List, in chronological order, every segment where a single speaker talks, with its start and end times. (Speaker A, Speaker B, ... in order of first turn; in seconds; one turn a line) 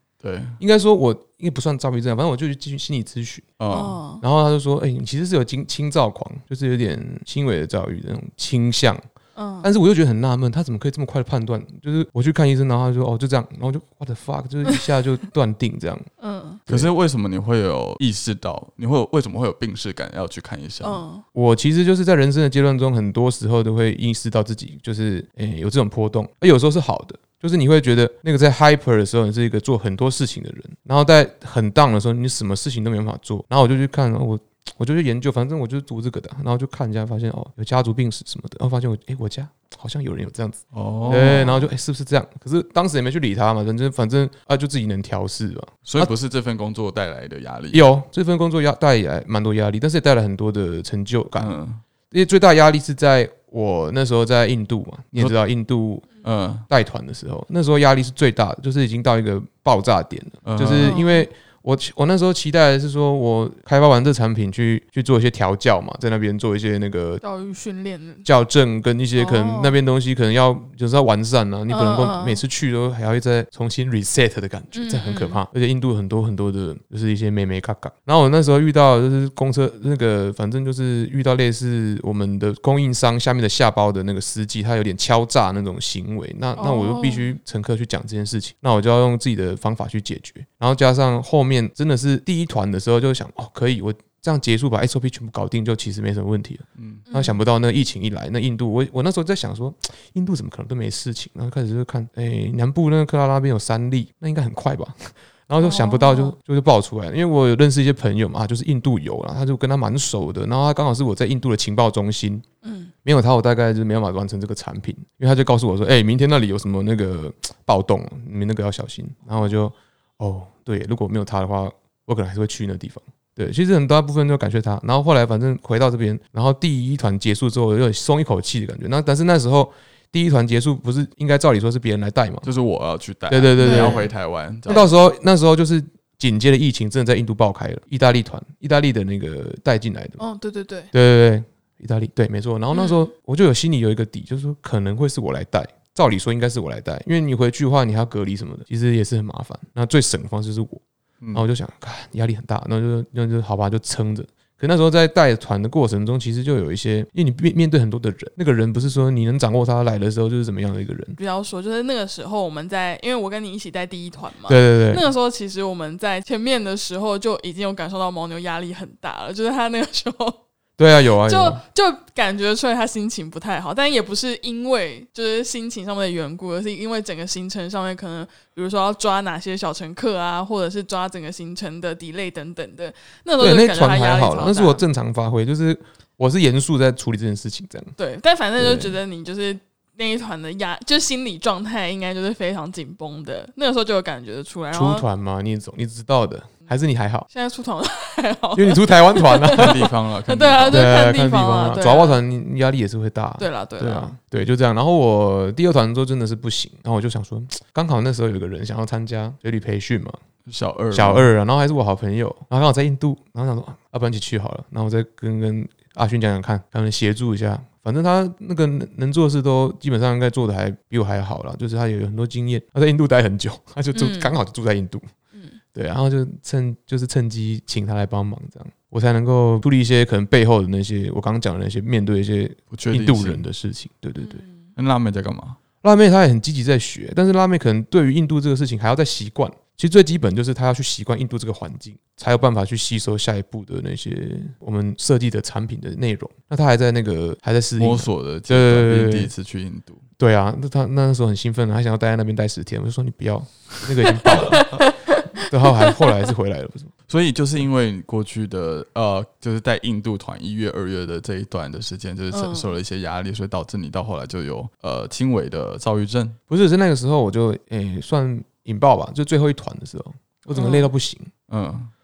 Speaker A: 0.2-0.6
Speaker B: 0.6-3.5
Speaker A: 3.6-4.0
Speaker C: 3.7-4.2
Speaker B: 4.2-9.1
Speaker C: 9.4-9.7
Speaker B: 9.6-16.1
Speaker C: 16.2-16.6
Speaker A: 16.7-21.0
Speaker C: 20.8-21.2
Speaker B: 21.3-46.1
Speaker A: 40.7-41.5
Speaker C: 41.0-41.7
Speaker A: 45.9-47.9
Speaker B: 47.7-51.6
Speaker A: 51.4-51.8
Speaker B: 52.1-56.1
Speaker A: 56.2-56.7
Speaker B: 56.7-67.2
Speaker A: 60.5-61.0
Speaker C: 60.7-61.3
Speaker C: 67.2-68.3
Speaker B: 68.2-112.5
Speaker C: 69.2-69.8
Speaker C: 71.7-72.4
Speaker C: 74.8-75.4
Speaker C: 86.6-87.3
Speaker A: 96.8-97.0
Speaker C: 97.1-97.4
Speaker C: 105.6-106.3
Speaker C: 112.6-112.9
Speaker B: 113.0-132.5
Speaker A: 132.4-134.9
Speaker B: 133.3-134.1
Speaker C: 133.6-134.1
Speaker B: 134.7-140.2
Speaker C: 140.2-140.9
Speaker B: 140.9-150.8
Speaker C: 142.7-143.1
Speaker B: 151.3-161.2
Speaker C: 161.2-170.4
Speaker B: 164.5-165.1
Speaker B: 170.8-171.6
Speaker C: 171.2-184.8
Speaker B: 183.4-187.9
Speaker C: 188.0-195.1
Speaker B: 188.6-189.0
Speaker B: 194.7-197.3
Speaker C: 197.3-202.2
Speaker B: 198.6-199.9
Speaker A: 199.5-200.9
Speaker B: 200.7-210.2
Speaker C: 203.4-204.2
Speaker A: 210.5-211.3
Speaker B: 210.9-225.1
Speaker C: 223.9-224.4
Speaker B: 225.7-234.4
Speaker A: 232.7-233.4
Speaker C: 234.2-234.7
Speaker A: 234.8-235.6
Speaker B: 235.8-249.3
Speaker A: 247.8-250.0
Speaker B: 250.2-256.9
Speaker C: 254.1-256.3
Speaker A: 257.1-266.4
Speaker C: 262.3-262.7
Speaker B: 266.5-271.3
Speaker C: 270.5-270.9
Speaker A: 271.5-271.9